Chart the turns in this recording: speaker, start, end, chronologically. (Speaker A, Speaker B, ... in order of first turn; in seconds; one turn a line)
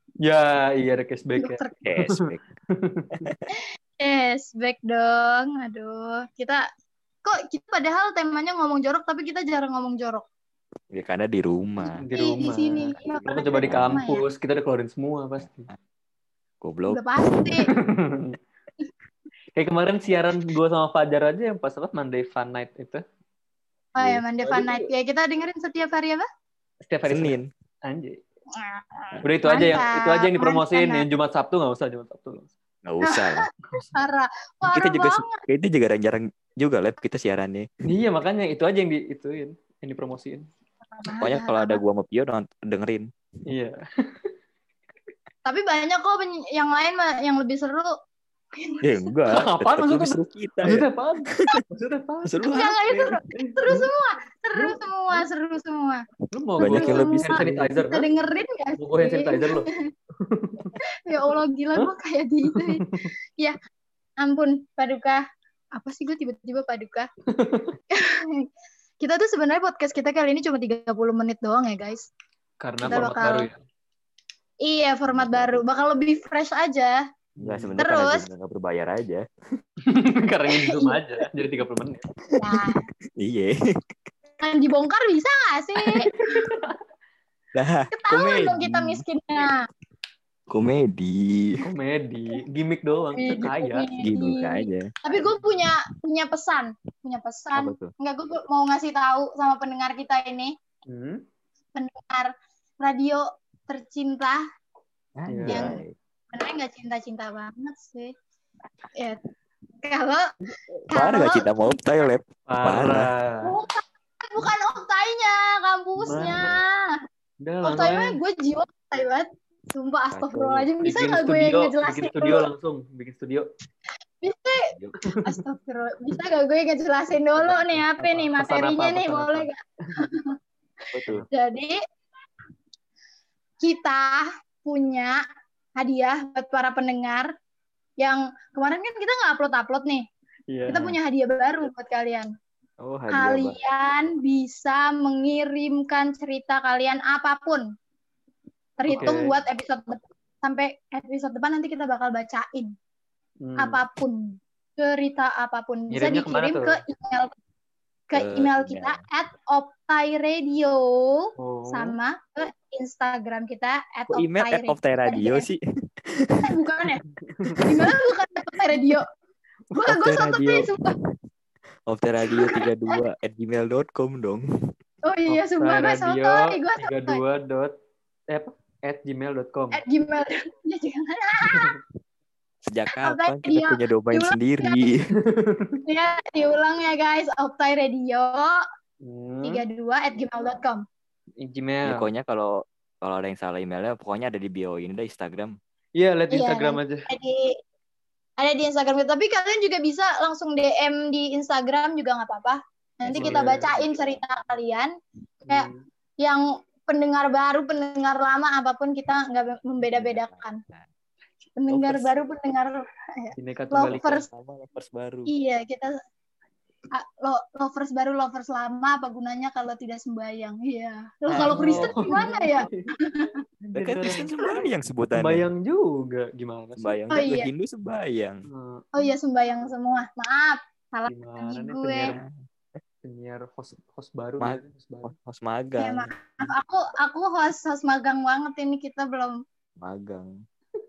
Speaker A: 0.2-3.2
Speaker B: 1.4-1.8
Speaker C: 1.8-2.4
Speaker B: 3.5-6.6
Speaker B: 7.2-10.2
Speaker C: 10.9-12.0
Speaker A: 11.8-15.7
Speaker B: 12.1-14.2
Speaker C: 13.0-14.1
Speaker C: 16.6-17.0
Speaker B: 16.9-17.7
Speaker A: 17.6-18.4
Speaker A: 19.6-23.0
Speaker B: 24.0-26.3
Speaker C: 24.0-24.2
Speaker A: 24.4-24.9
Speaker A: 26.8-28.2
Speaker C: 27.1-27.5
Speaker B: 28.6-31.1
Speaker A: 29.2-32.5
Speaker C: 32.9-33.5
Speaker B: 33.0-35.4
Speaker C: 34.7-37.7
Speaker A: 37.9-40.5
Speaker B: 40.9-41.8
Speaker C: 41.2-43.1
Speaker A: 43.5-44.3
Speaker B: 45.5-47.9
Speaker B: 48.6-48.8
Speaker C: 48.8-50.9
Speaker A: 49.3-52.4
Speaker C: 52.2-53.1
Speaker B: 52.5-56.0
Speaker A: 53.3-53.9
Speaker A: 54.5-55.2
Speaker A: 56.3-58.1
Speaker C: 56.6-57.8
Speaker B: 56.6-59.9
Speaker A: 58.8-59.7
Speaker A: 60.2-60.7
Speaker B: 61.1-63.5
Speaker A: 62.5-63.1
Speaker B: 64.2-65.2
Speaker B: 65.8-67.1
Speaker A: 67.3-67.8
Speaker B: 67.9-68.4
Speaker B: 69.0-72.1
Speaker A: 72.6-73.6
Speaker C: 72.8-73.1
Speaker B: 72.9-73.5
Speaker B: 74.6-77.0
Speaker C: 75.1-75.6
Speaker A: 77.4-77.8
Speaker C: 77.4-79.2
Speaker B: 77.8-78.2
Speaker A: 79.9-82.1
Speaker B: 80.5-81.0
Speaker C: 82.3-83.6
Speaker B: 82.4-82.8
Speaker B: 84.4-86.1
Speaker A: 85.8-86.8
Speaker C: 87.5-89.0
Speaker B: 87.9-89.6
Speaker C: 90.5-91.6
Speaker A: 91.6-93.9
Speaker B: 93.2-100.5
Speaker C: 94.0-94.9
Speaker C: 97.5-97.9
Speaker A: 100.9-101.2
Speaker B: 101.8-104.4
Speaker C: 105.2-106.0
Speaker A: 105.3-105.7
Speaker B: 105.5-105.8
Speaker B: 106.3-108.1
Speaker B: 109.8-110.3
Speaker C: 110.9-113.1
Speaker B: 110.9-111.7
Speaker A: 112.5-113.5
Speaker B: 113.4-117.0
Speaker A: 116.0-116.5
Speaker C: 116.1-116.6
Speaker A: 117.4-118.2
Speaker B: 117.6-122.5
Speaker C: 120.1-120.7
Speaker A: 120.8-123.5
Speaker B: 124.2-124.6
Speaker A: 125.0-125.4
Speaker B: 125.2-130.3
Speaker A: 127.4-130.0
Speaker C: 130.9-131.3
Speaker B: 131.3-131.8
Speaker B: 133.6-135.2
Speaker B: 135.8-137.3
Speaker B: 138.0-140.1
Speaker A: 140.5-141.0
Speaker B: 140.7-142.3
Speaker C: 142.8-143.6
Speaker B: 143.1-147.6
Speaker B: 148.8-152.7
Speaker A: 148.9-149.3
Speaker A: 153.4-153.8
Speaker B: 153.6-157.3
Speaker A: 155.9-156.8
Speaker B: 158.1-165.4
Speaker C: 158.1-159.0
Speaker A: 161.4-162.0
Speaker C: 164.1-166.4
Speaker B: 166.5-167.0
Speaker A: 167.2-167.7
Speaker B: 167.6-169.1
Speaker B: 169.7-170.9
Speaker C: 169.9-170.8
Speaker C: 171.9-174.5
Speaker B: 172.3-172.6
Speaker B: 175.1-177.2
Speaker A: 175.3-177.7
Speaker A: 178.3-179.8
Speaker B: 179.7-181.7
Speaker A: 181.5-181.8
Speaker C: 182.6-185.1
Speaker B: 183.0-184.8
Speaker A: 185.2-185.8
Speaker B: 185.9-188.6
Speaker A: 189.0-189.6
Speaker B: 189.4-190.8
Speaker A: 191.4-192.1
Speaker C: 191.8-195.6
Speaker A: 196.0-197.1
Speaker B: 196.3-197.6
Speaker B: 198.4-204.9
Speaker C: 203.1-204.1
Speaker A: 203.1-203.7
Speaker A: 205.5-205.8
Speaker B: 206.2-210.6
Speaker C: 209.9-210.9
Speaker B: 211.6-214.3
Speaker C: 211.7-212.3
Speaker A: 213.4-214.2
Speaker C: 213.8-215.3
Speaker B: 215.3-215.9
Speaker B: 217.0-223.3
Speaker C: 221.3-222.0
Speaker A: 221.3-222.9
Speaker A: 223.6-224.6
Speaker C: 223.8-225.5
Speaker A: 225.1-227.0
Speaker C: 226.8-228.4
Speaker B: 227.1-227.5
Speaker A: 228.5-228.9
Speaker B: 228.9-232.2
Speaker A: 231.1-232.2
Speaker A: 233.0-235.1
Speaker C: 234.4-236.1
Speaker B: 235.8-239.4
Speaker C: 239.8-240.3